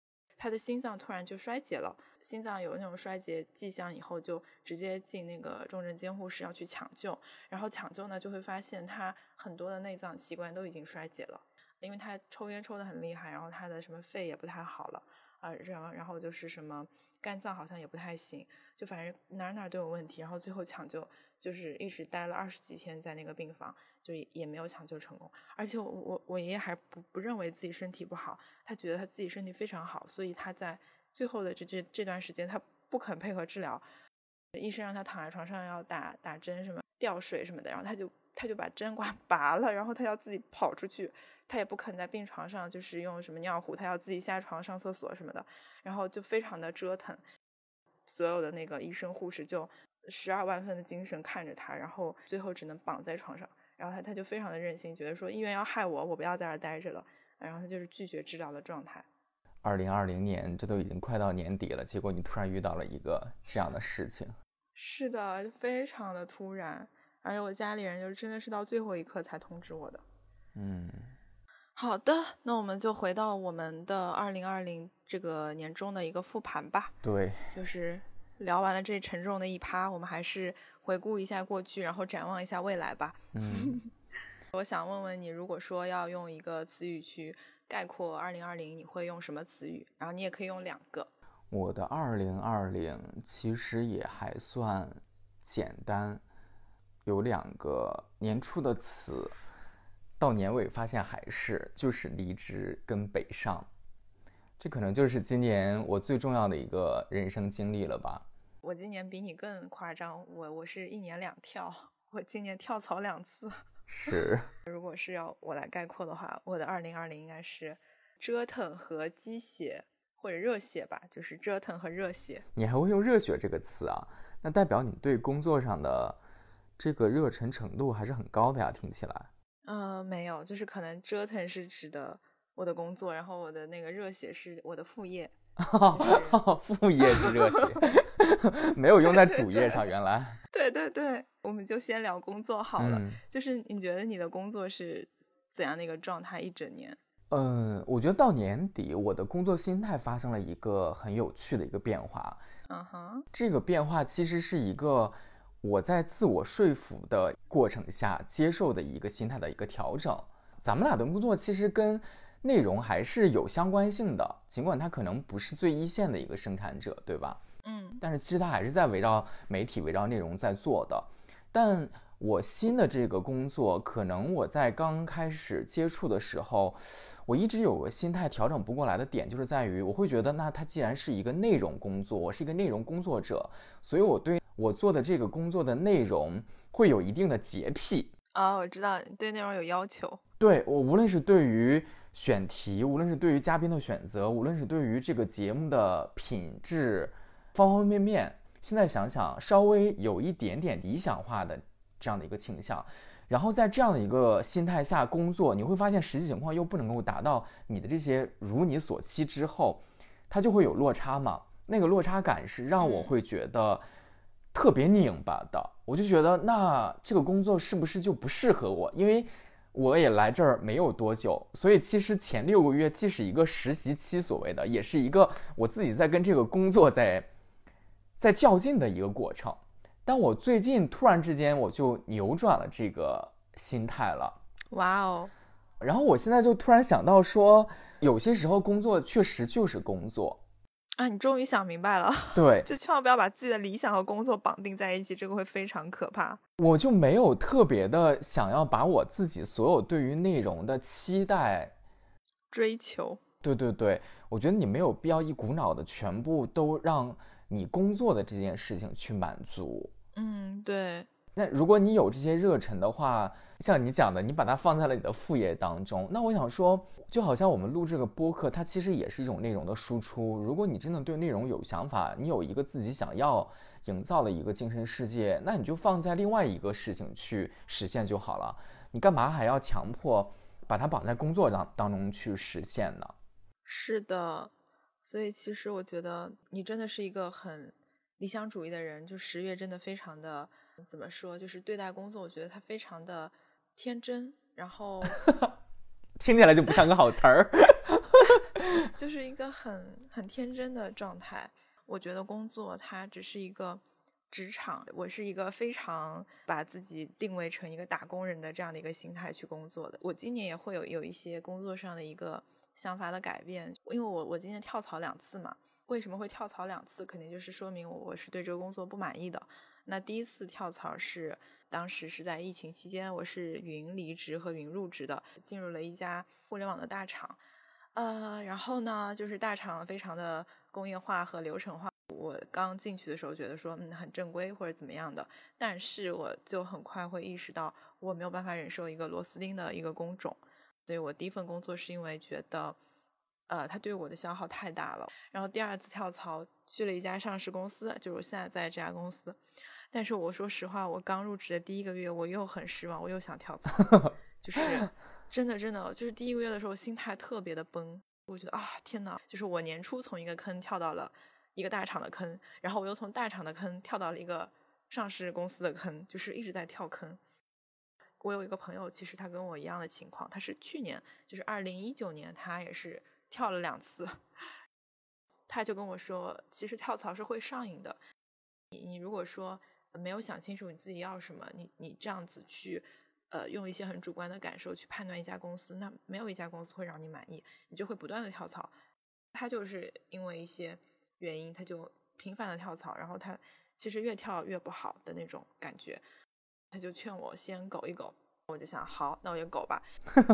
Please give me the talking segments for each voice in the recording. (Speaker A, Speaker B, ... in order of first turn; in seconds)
Speaker A: 0.4-33.8, 34.5-47.2, 48.0-59.1, 64.8-70.0, 71.8-77.0, 77.5-83.9, 84.5-91.1, 108.6-113.7, 114.7-122.5, 129.7-136.4, 137.1-137.7, 139.1-139.8, 140.5-147.0, 152.7-153.3, 167.6-168.0, 188.3-190.2, 212.8-213.1, 234.7-235.3, 241.0-246.4, 252.5-253.2, 260.1-261.1, 283.7-295.2, 298.8-327.4, 327.9-342.8, 343.5-349.4, 349.9-367.2, 368.2-374.4, 375.5-378.0, 378.7-388.7, 389.3-396.0, 396.7-399.9
Speaker B: 59.6-64.3, 70.5-71.1, 77.0-77.5, 83.3-83.8, 91.5-96.2, 97.0-99.3, 100.2-103.7, 104.6-108.2, 113.9-114.5, 122.5-126.2, 126.8-129.3, 135.6-140.4, 142.8-143.2, 147.3-152.4, 153.3-167.4, 168.0-188.1, 190.4-213.8, 214.5-227.3, 228.2-234.4, 235.8-240.4, 242.3-242.7, 246.6-251.7, 253.4-259.9, 261.4-283.1, 295.2-295.5, 296.2-298.6